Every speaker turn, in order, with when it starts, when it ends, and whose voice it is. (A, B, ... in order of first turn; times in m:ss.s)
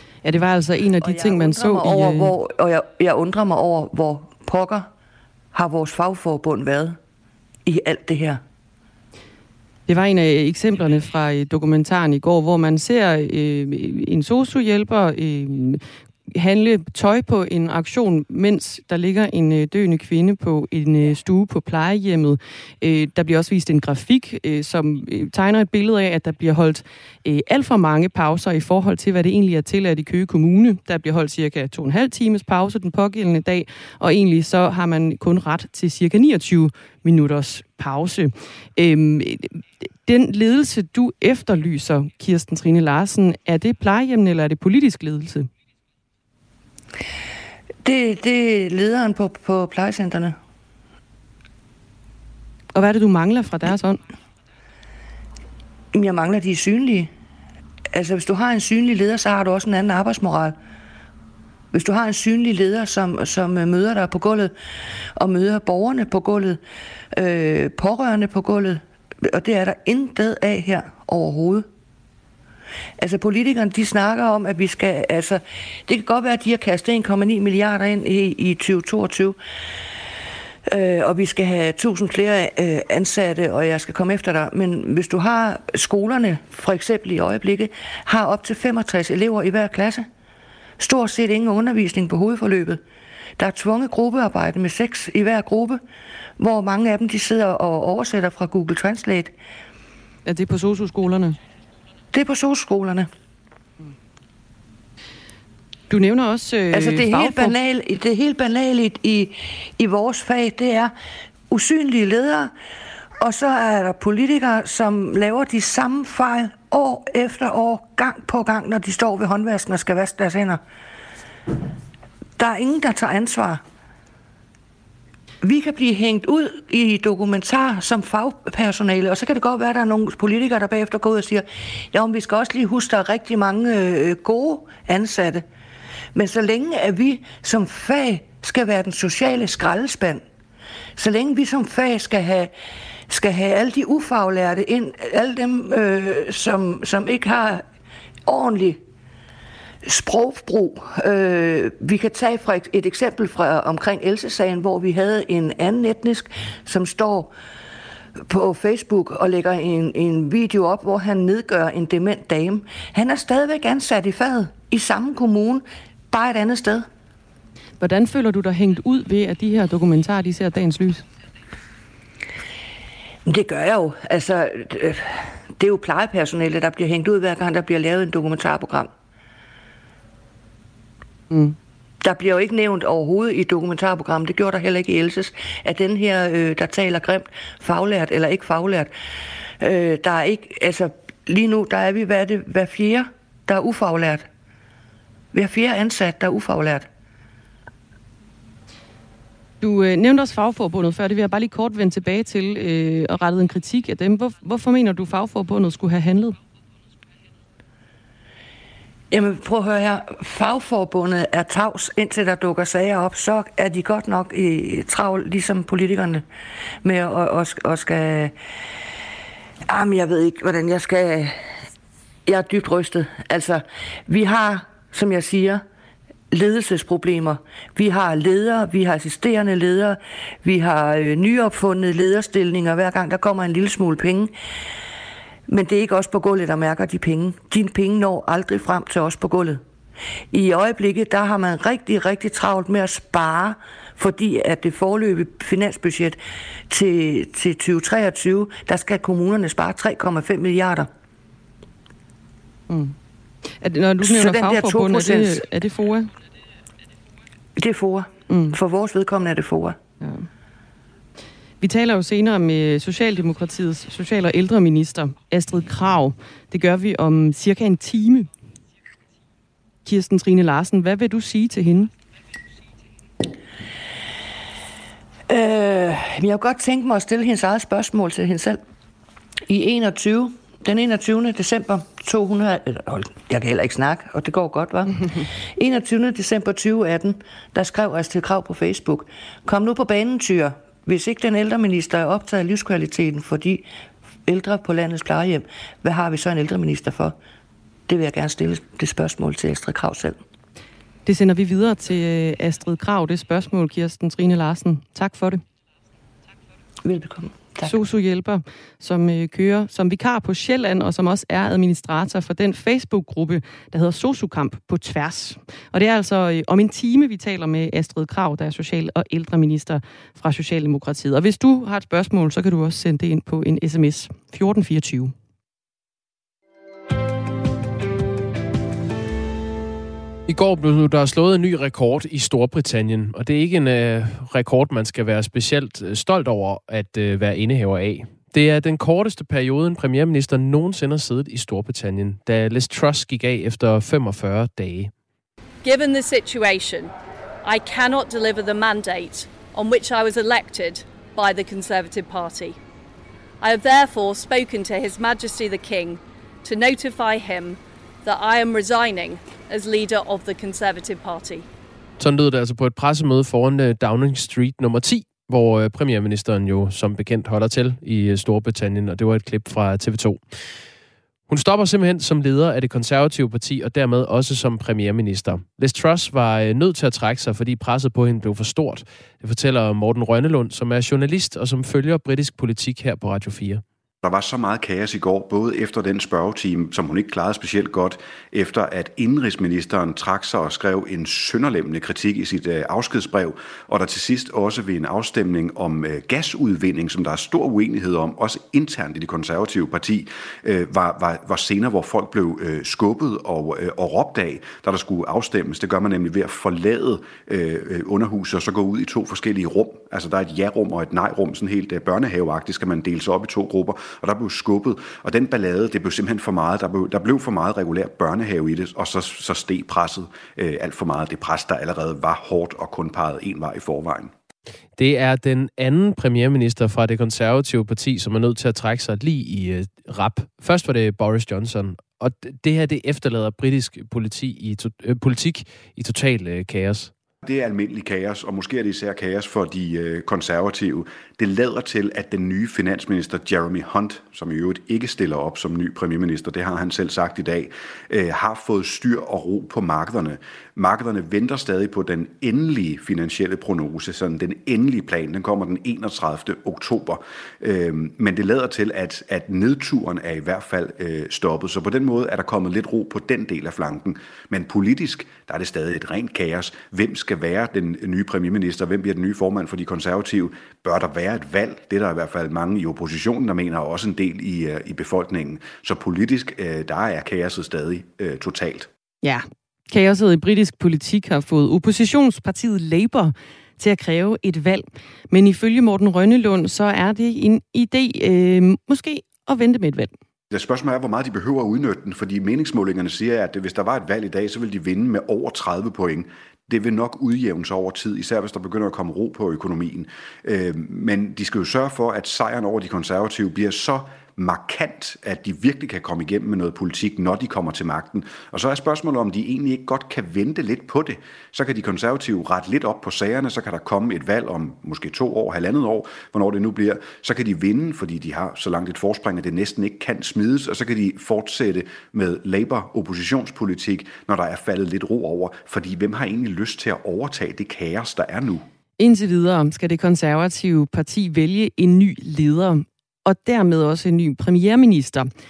0:00.2-0:02.3 A
0:01.0-0:04.9 B
0:05.5-0:07.0 B
0:07.6-0:08.4 B
0:09.9-0:45.5 A
0:47.8-0:50.4 B
0:52.7-0:54.0 A
0:55.9-0:57.1 B
0:57.9-1:00.6 B
1:01.7-1:04.5 B
1:05.2-1:06.6 B
1:07.1-1:11.6 B
1:13.0-1:19.4 B
1:20.7-1:30.1 B
1:30.8-1:32.8 B
1:33.4-1:35.8 B
1:36.4-1:39.3 B
1:40.2-1:41.4 A
1:42.1-1:43.1 B
1:45.9-1:47.5 A
1:46.7-1:50.9 B
1:51.5-1:52.5 B
1:53.2-2:00.6 B
2:02.4-2:03.6 B
2:05.4-2:15.4 B
2:16.1-2:20.2 B
2:21.0-2:22.5 B
2:23.1-2:27.6 B
2:28.2-2:28.8 B
2:29.8-2:37.3 B
2:38.3-2:46.9 B
2:47.8-2:51.0 A
2:53.2-2:58.9 B
3:01.3-3:01.6 A
3:02.0-3:08.9 B
3:09.6-3:14.3 B
3:15.3-3:16.9 B
3:19.6-3:26.4 A
3:29.1-3:36.2 B
3:36.8-3:38.3 B
3:39.6-3:41.4 B
3:42.2-3:45.6 B
3:46.3-3:54.3 B
3:55.5-3:59.6 B
4:00.3-4:10.9 B
4:12.7-4:12.9 A
4:13.6-4:16.1 A
4:14.0-4:15.4 B
4:17.6-4:19.8 B
4:18.3-4:18.6 A
4:20.0-4:20.3 A
4:21.6-4:28.3 A
4:29.8-4:31.9 A
4:35.3-4:38.6 B
4:39.5-4:53.6 B
4:54.2-4:57.2 B
4:57.9-5:00.2 B
5:01.0-5:05.4 A
5:06.8-5:07.8 B
5:07.6-5:25.1 A
5:30.3-5:44.9 C
5:45.6-5:46.9 D
5:47.4-5:52.6 D
5:53.4-6:01.4 D
6:02.0-6:10.2 C
6:11.3-6:23.6 C
6:24.0-7:04.1 E
7:04.8-7:16.9 C
7:17.2-7:58.7 E
7:59.0-8:09.9 A
8:10.3-8:48.4 E
8:48.8-8:55.1 A